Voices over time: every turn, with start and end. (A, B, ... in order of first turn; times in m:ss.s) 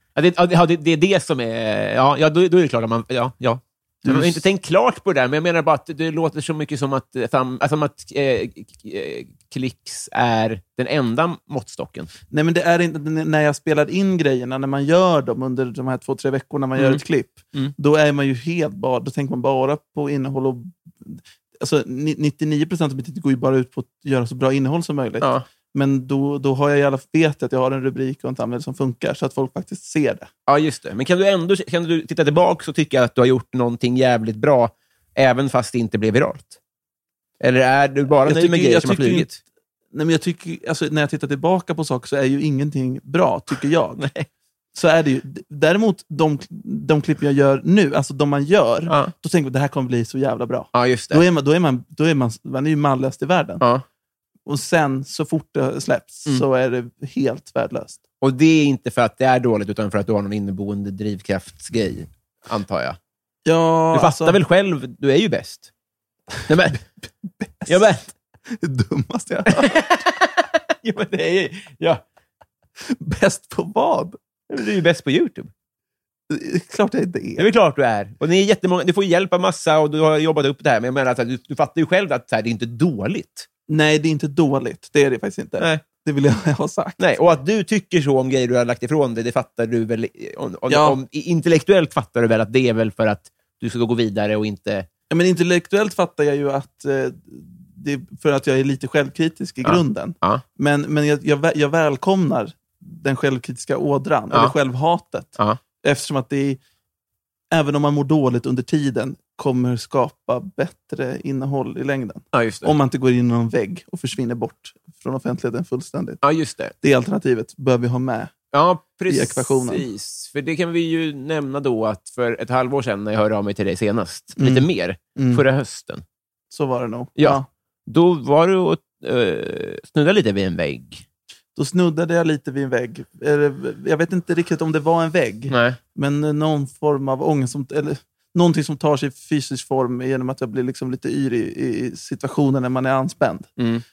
0:00.2-0:12.1 A
0:04.0-0:04.4 B
0:12.3-0:30.3 B
0:16.8-0:17.0 A
0:30.5-0:36.6 A
0:37.4-0:39.4 A
0:38.2-0:39.3 B
0:39.9-0:44.1 B
0:44.0-0:44.3 A
0:44.8-0:53.6 B
0:48.9-0:49.1 A
0:50.7-0:51.2 A
0:54.5-0:58.0 B
0:58.2-1:03.0 A
1:03.4-1:04.4 B
1:03.9-1:05.7 A
1:06.5-1:06.8 A
1:07.4-1:10.1 B
1:07.7-1:08.1 A
1:09.5-1:12.0 A
1:12.8-1:14.2 B
1:14.5-1:15.5 A
1:16.3-1:17.5 B
1:17.4-1:23.5 A
1:23.7-1:27.0 B
1:27.0-1:34.9 A
1:30.7-1:31.0 B
1:35.1-1:46.6 B
1:39.6-1:40.4 A
1:47.5-1:56.2 B
1:52.3-1:52.7 A
1:56.2-1:56.7 A
1:56.8-1:58.3 B
1:58.5-2:06.0 A
1:59.1-1:59.9 B
2:04.4-2:05.4 B
2:06.5-2:07.5 B
2:07.2-2:11.0 A
2:11.6-2:23.5 B
2:15.5-2:15.8 A
2:23.6-2:23.8 A